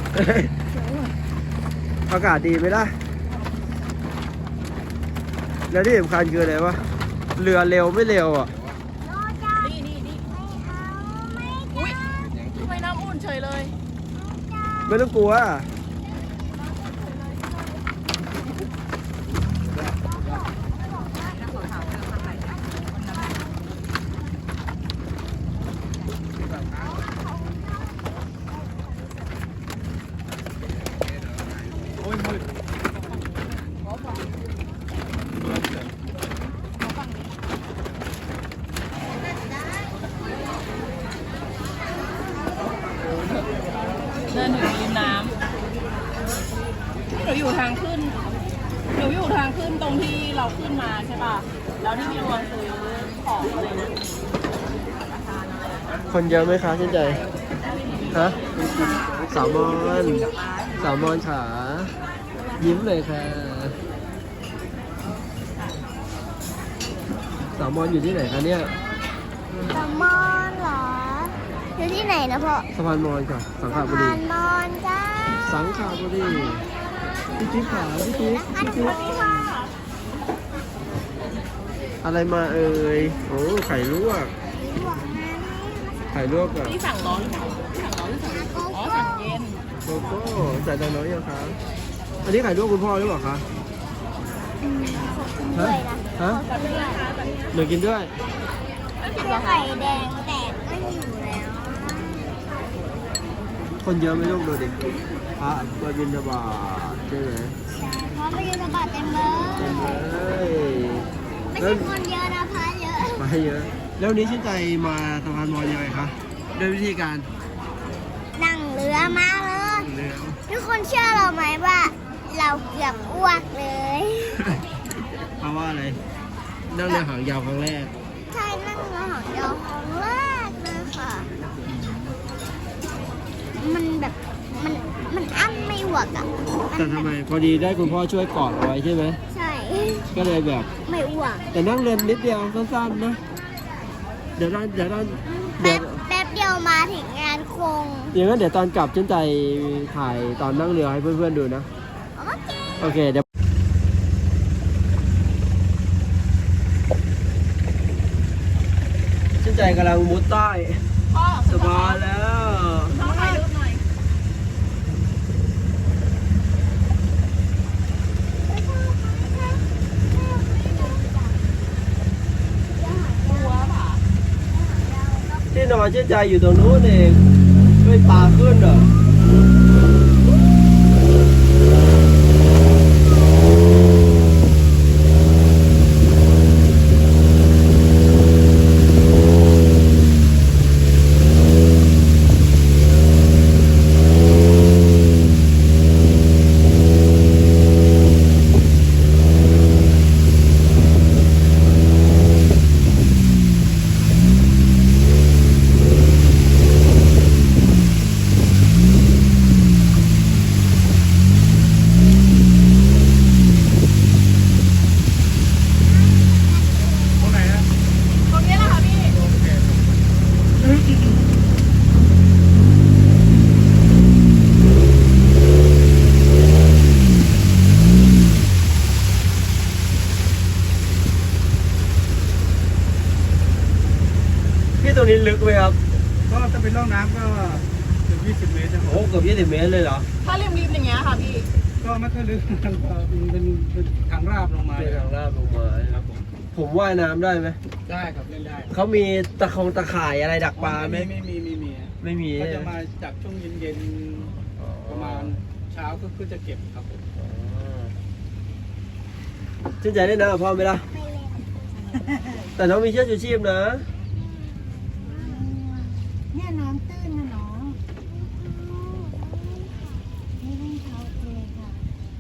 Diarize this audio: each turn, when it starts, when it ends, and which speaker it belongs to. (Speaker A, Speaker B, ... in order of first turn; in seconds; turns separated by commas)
Speaker A: 0.1-0.5, Speaker A: 2.1-3.0, Speaker A: 5.7-8.5, Speaker B: 9.0-12.5, Speaker C: 9.6-10.2, Speaker C: 11.7-13.8, Speaker B: 14.1-14.9, Speaker A: 14.9-15.7, Speaker D: 32.0-32.4, Speaker C: 44.3-45.3, Speaker C: 47.1-48.2, Speaker C: 48.9-53.9, Speaker A: 56.1-57.2, Speaker A: 58.1-58.4, Speaker A: 59.3-62.0, Speaker A: 62.6-63.8, Speaker A: 67.5-68.7, Speaker B: 69.7-72.7, Speaker A: 72.7-74.2, Speaker B: 73.7-75.5, Speaker A: 75.4-76.7, Speaker A: 77.4-79.0, Speaker B: 77.5-79.6, Speaker C: 78.8-79.7, Speaker A: 82.0-84.3, Speaker B: 84.5-86.2, Speaker A: 86.1-86.8, Speaker C: 86.7-89.6, Speaker B: 88.2-89.3, Speaker A: 89.8-91.6, Speaker A: 92.2-93.5, Speaker B: 94.6-97.1, Speaker A: 95.5-96.4, Speaker C: 96.5-97.5, Speaker A: 97.5-98.1, Speaker C: 99.0-99.7, Speaker B: 99.1-102.3, Speaker A: 103.8-107.6, Speaker B: 107.7-110.0, Speaker A: 109.5-111.9, Speaker B: 111.5-113.3, Speaker A: 113.0-117.3, Speaker B: 118.3-119.9, Speaker A: 119.6-120.4, Speaker B: 120.5-124.5, Speaker A: 125.4-126.0, Speaker A: 126.7-127.9, Speaker B: 128.3-131.3, Speaker A: 131.7-132.1, Speaker B: 133.6-137.1, Speaker A: 136.7-139.2, Speaker B: 139.3-140.1, Speaker A: 140.1-140.7, Speaker B: 140.8-141.4, Speaker A: 141.5-143.2, Speaker A: 144.4-146.0, Speaker B: 145.2-148.2, Speaker A: 148.1-151.7, Speaker B: 152.1-152.5, Speaker A: 152.8-153.2, Speaker A: 159.4-160.8, Speaker C: 161.1-162.0, Speaker A: 161.4-163.1, Speaker C: 162.9-163.8, Speaker B: 168.4-171.4, Speaker B: 172.7-173.7, Speaker C: 173.3-174.0, Speaker B: 174.5-175.4, Speaker A: 175.5-177.2, Speaker A: 177.8-178.9, Speaker B: 216.0-217.3, Speaker D: 217.2-217.7, Speaker C: 218.3-219.2, Speaker D: 219.1-219.8, Speaker A: 234.8-235.8, Speaker D: 236.3-238.9, Speaker A: 238.8-240.1, Speaker C: 240.2-241.5, Speaker D: 241.8-245.1, Speaker A: 244.7-247.6, Speaker D: 247.9-248.7, Speaker A: 248.7-251.1, Speaker D: 250.6-254.3, Speaker A: 252.0-252.7, Speaker A: 254.6-255.3, Speaker D: 254.9-257.0, Speaker A: 257.1-257.9, Speaker A: 259.8-260.9, Speaker B: 260.9-261.4, Speaker A: 262.6-263.9, Speaker B: 265.1-265.4, Speaker E: 265.4-267.8, Speaker B: 268.3-269.8, Speaker E: 270.4-271.8